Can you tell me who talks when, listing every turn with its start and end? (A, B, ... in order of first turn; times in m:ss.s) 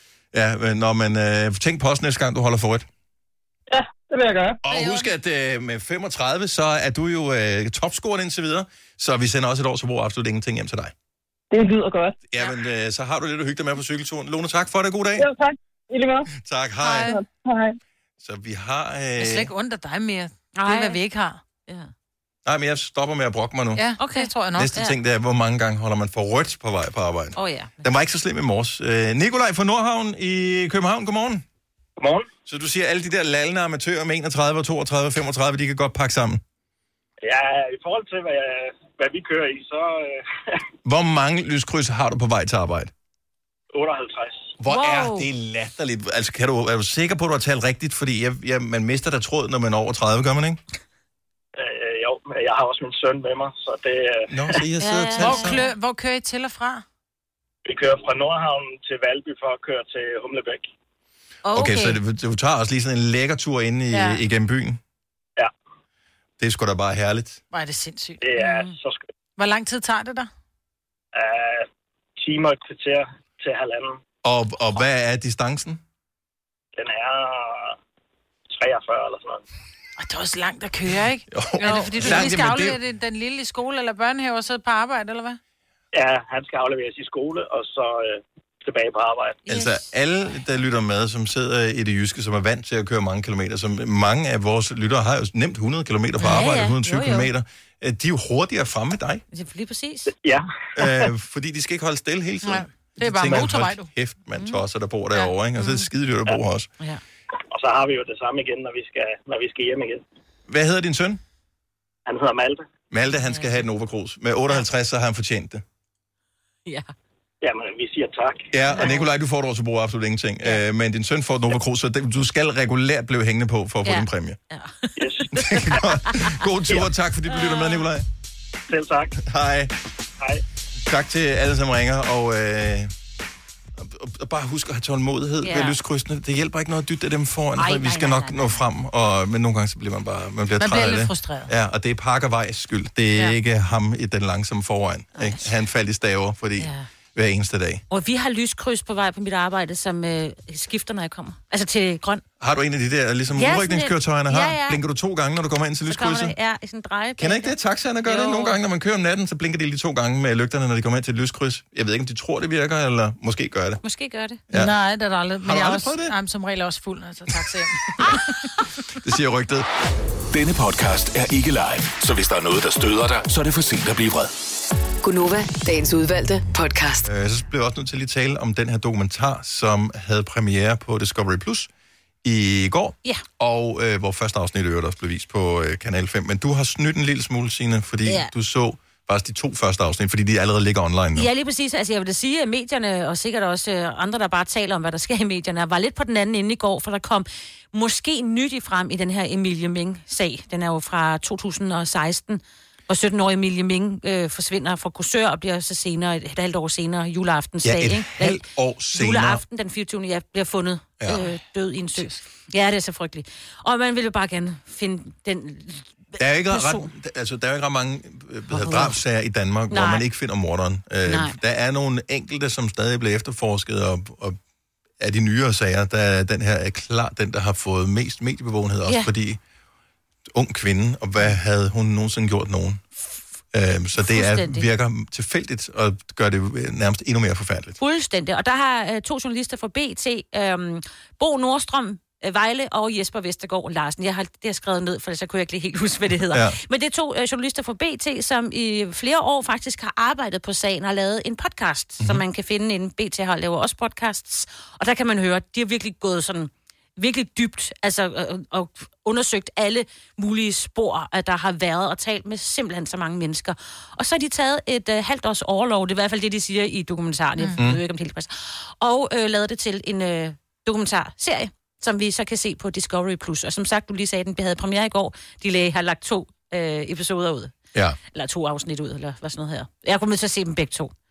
0:00.3-0:02.9 A
0:03.7-0:04.6 B
0:04.6-0:10.9 A
0:04.7-0:05.0 C
0:11.5-0:12.2 B
0:12.3-0:15.3 A
0:15.2-0:16.3 B
0:16.3-0:17.2 A
0:16.8-0:17.2 C
0:17.0-0:17.8 B
0:18.2-0:19.5 A
0:19.2-0:21.4 C
0:20.6-0:21.0 D
0:22.4-0:23.9 A
0:23.8-0:24.8 C
0:24.0-0:24.9 D
0:24.6-0:31.4 A
0:27.4-0:27.7 D
0:32.0-0:32.3 E
0:32.4-0:36.4 A
0:37.2-0:40.6 E
0:40.8-0:42.9 A
0:43.7-0:44.5 E
0:44.6-0:50.6 A
0:44.7-0:45.3 D
0:51.6-0:54.6 E
0:54.3-0:55.6 A
0:54.8-0:55.6 D
0:55.2-0:56.8 C
0:57.6-1:00.7 E
1:01.4-1:02.0 D
1:01.5-1:04.8 A
1:03.9-1:04.2 C
1:06.4-1:07.4 A
1:07.5-1:08.2 C
1:08.2-1:09.0 E
1:08.4-1:08.8 D
1:09.4-1:10.3 C
1:11.1-1:11.7 E
1:12.2-1:14.0 E
1:14.2-1:15.8 A
1:16.8-1:17.8 E
1:18.5-1:19.4 E
1:20.0-1:25.4 C
1:21.3-1:22.8 A
1:21.6-1:22.3 D
1:25.9-1:29.4 E
1:29.4-1:39.2 A
1:29.5-1:29.8 D
1:36.2-1:36.4 C
1:36.2-1:37.3 D
1:39.3-1:40.1 D
1:40.1-1:41.1 E
1:40.8-1:46.7 A
1:42.4-1:43.9 C
1:44.3-1:44.6 D
1:45.6-1:45.9 D
1:47.5-1:50.0 E
1:50.5-1:51.2 A
1:52.1-1:52.6 E
1:52.9-1:55.6 A
1:53.2-1:53.6 D
1:56.6-1:56.9 D
1:57.4-1:58.5 E
1:58.5-2:04.4 A
1:58.7-1:59.1 D
2:03.8-2:06.4 D
2:05.0-2:05.2 E
2:05.3-2:08.0 A
2:07.3-2:07.9 D
2:08.7-2:09.2 E
2:09.2-2:09.7 A
2:10.8-2:12.9 A
2:13.8-2:27.8 A
2:15.4-2:15.8 D
2:17.6-2:18.6 D
2:20.6-2:21.5 C
2:25.1-2:25.5 D
2:26.6-2:26.9 D
2:27.9-2:32.2 D
2:32.4-2:36.3 A
2:33.3-2:34.8 D
2:35.9-2:38.6 D
2:37.2-2:43.8 A
2:43.8-2:44.4 D
2:44.5-2:48.2 C
2:45.4-2:46.2 A
2:48.9-2:49.6 A
2:50.3-2:54.3 F
2:55.0-2:57.0 G
2:57.0-3:01.7 A
3:02.2-3:11.3 A
3:08.0-3:08.3 D
3:11.1-3:36.9 D
3:27.6-3:29.4 A
3:31.0-3:31.3 A
3:36.2-3:44.4 A
3:38.5-3:39.0 D
3:39.7-3:40.0 D
3:41.0-3:41.4 D
3:45.0-3:49.4 A
3:50.3-3:57.8 A
3:54.0-3:54.7 D
3:57.8-4:37.5 D
4:06.2-4:06.6 A
4:27.4-4:27.6 C
4:38.1-4:40.9 D